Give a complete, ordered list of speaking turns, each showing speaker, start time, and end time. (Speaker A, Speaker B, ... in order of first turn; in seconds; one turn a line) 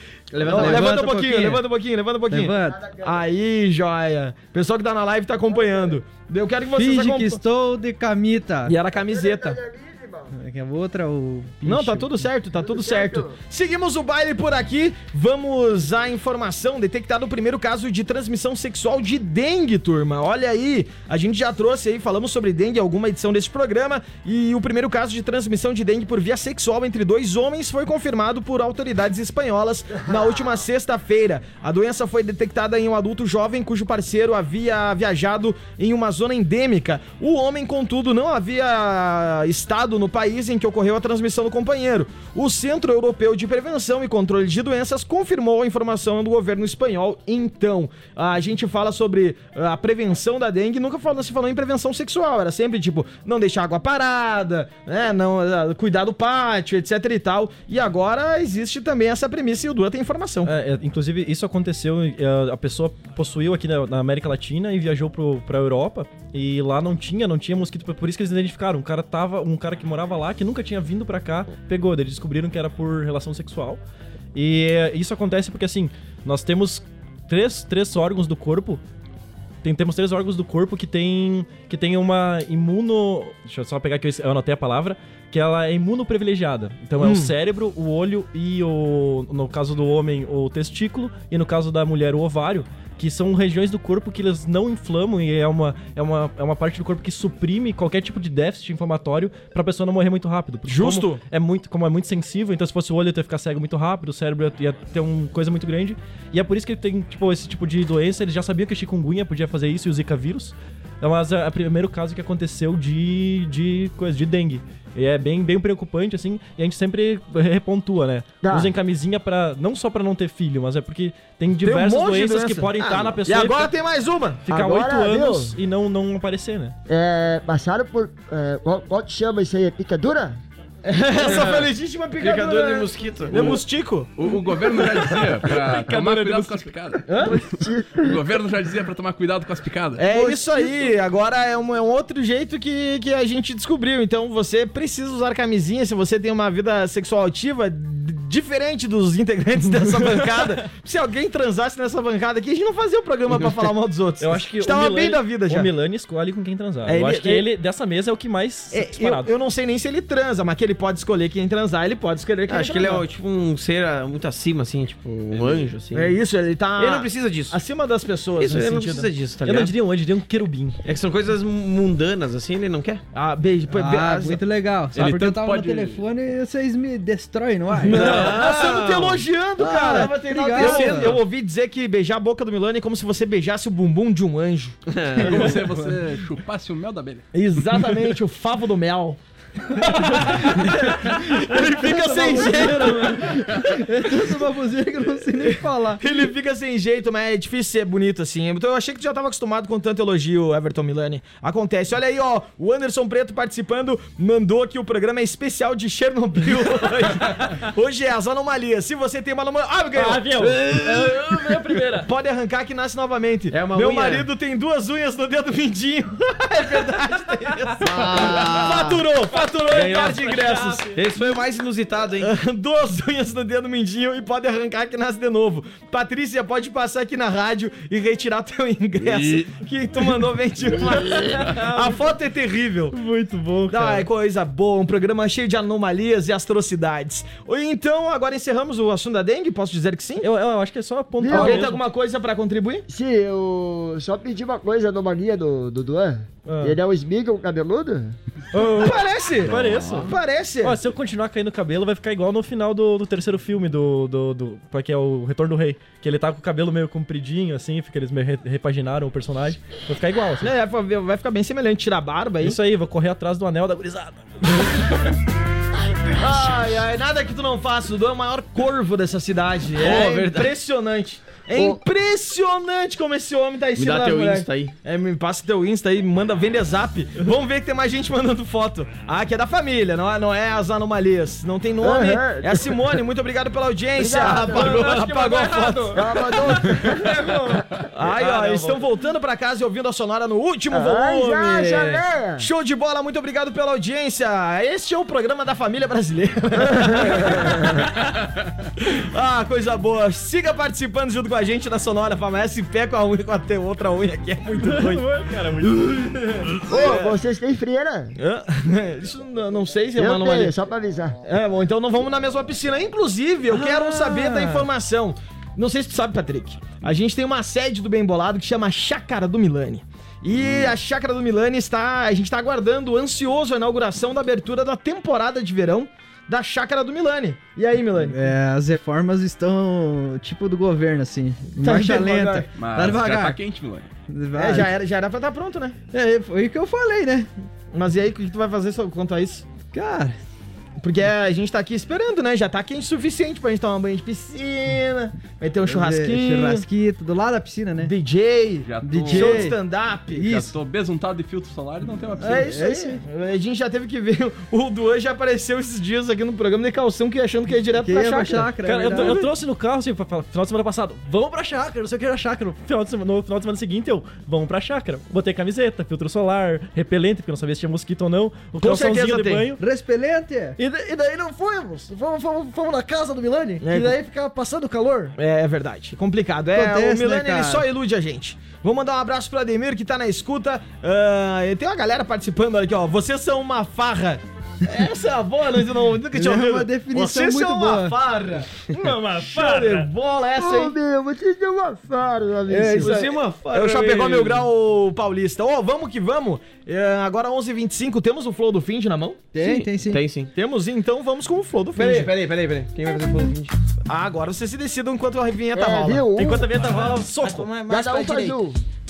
Speaker A: 0.3-1.0
Speaker B: 0.5-7.4
Speaker C: 0.5-1.6
Speaker C: 2.3-2.9
Speaker D: 2.5-3.3
Speaker D: 5.5-6.0
Speaker C: 6.7-8.8
Speaker B: 8.7-9.6
Speaker D: 8.9-10.3
Speaker C: 10.3-12.2
Speaker B: 11.7-60.5
Speaker D: 12.6-13.4
Speaker E: 60.4-73.8
Speaker E: 74.3-78.8
Speaker E: 79.6-123.7
Speaker B: 87.0-87.3
Speaker B: 100.7-101.2
Speaker D: 118.4-118.7
Speaker B: 121.6-124.5
Speaker E: 124.5-126.8
Speaker D: 124.5-125.6
Speaker D: 126.9-130.4
Speaker B: 130.8-136.1
Speaker A: 131.2-133.6
Speaker F: 134.2-137.3
Speaker E: 135.8-136.6
Speaker B: 137.1-137.4
Speaker D: 137.2-138.2
Speaker F: 138.0-140.1
Speaker B: 140.0-155.7
Speaker D: 140.1-140.9
Speaker E: 154.2-159.3
Speaker B: 156.9-157.5
Speaker B: 158.7-163.0
Speaker A: 162.5-166.2
Speaker B: 165.9-169.1
Speaker A: 166.8-167.6
Speaker A: 168.4-169.7
Speaker E: 169.4-170.8
Speaker A: 170.8-173.0
Speaker B: 173.1-174.4
Speaker C: 173.7-178.3
Speaker F: 174.9-176.0
Speaker B: 177.8-184.8
Speaker A: 177.9-181.2
Speaker C: 179.6-181.2
Speaker A: 184.9-185.6
Speaker F: 185.2-187.2
Speaker B: 187.3-194.4
Speaker C: 191.4-196.0
Speaker B: 195.4-210.8
Speaker E: 209.9-212.1
Speaker B: 211.9-220.9
Speaker A: 213.5-214.3
Speaker A: 217.8-219.0
Speaker E: 219.3-221.0
Speaker A: 220.9-222.3
Speaker B: 222.2-232.9
Speaker F: 229.0-229.5
Speaker E: 231.3-232.0
Speaker E: 232.9-234.1
Speaker B: 233.7-240.3
Speaker E: 240.2-241.8
Speaker D: 241.2-241.7
Speaker B: 241.3-242.9
Speaker D: 242.9-248.2
Speaker E: 246.5-246.8
Speaker E: 248.5-260.5
Speaker B: 248.6-250.8
Speaker F: 249.5-250.1
Speaker B: 260.4-262.6
Speaker E: 262.4-264.6
Speaker B: 266.1-287.4
Speaker A: 269.8-270.5
Speaker D: 271.5-271.8
Speaker A: 273.8-274.8
Speaker D: 281.8-282.9
Speaker D: 284.0-284.8
Speaker A: 284.1-285.7
Speaker E: 284.9-286.0
Speaker D: 285.9-287.4
Speaker E: 286.8-287.6
Speaker B: 287.9-297.9
Speaker E: 288.1-288.8
Speaker D: 290.7-292.5
Speaker D: 296.6-297.9
Speaker B: 298.8-305.1
Speaker E: 304.5-306.5
Speaker B: 306.6-307.1
Speaker D: 306.6-308.2
Speaker B: 308.2-310.5
Speaker D: 310.0-311.2
Speaker B: 311.2-328.3
Speaker E: 313.5-314.7
Speaker C: 328.0-333.4
Speaker B: 331.6-332.5
Speaker F: 332.6-333.9
Speaker C: 334.1-334.7
Speaker B: 334.4-335.8
Speaker C: 335.9-337.3
Speaker B: 337.7-339.5
Speaker C: 339.7-340.2
Speaker B: 340.8-346.6
Speaker C: 345.7-347.9
Speaker B: 347.8-350.4
Speaker F: 348.7-349.5
Speaker C: 348.8-349.6
Speaker C: 350.1-350.5
Speaker F: 350.2-352.6
Speaker B: 352.2-359.3
Speaker C: 352.3-353.0
Speaker C: 357.8-359.3
Speaker E: 358.6-369.6
Speaker B: 368.6-369.5
Speaker C: 369.6-370.6
Speaker E: 370.6-375.2
Speaker B: 373.6-373.9
Speaker B: 375.2-390.8
Speaker C: 376.5-377.7
Speaker C: 386.1-388.0
Speaker E: 388.8-389.9
Speaker D: 390.4-392.9
Speaker C: 392.5-392.9
Speaker A: 392.8-394.5
Speaker B: 392.8-399.3
Speaker C: 399.3-400.0
Speaker A: 399.4-400.3
Speaker B: 400.4-402.1
Speaker A: 401.8-403.6
Speaker B: 403.9-406.1
Speaker D: 405.5-406.6
Speaker E: 406.2-407.5
Speaker B: 406.9-408.4
Speaker D: 407.7-408.6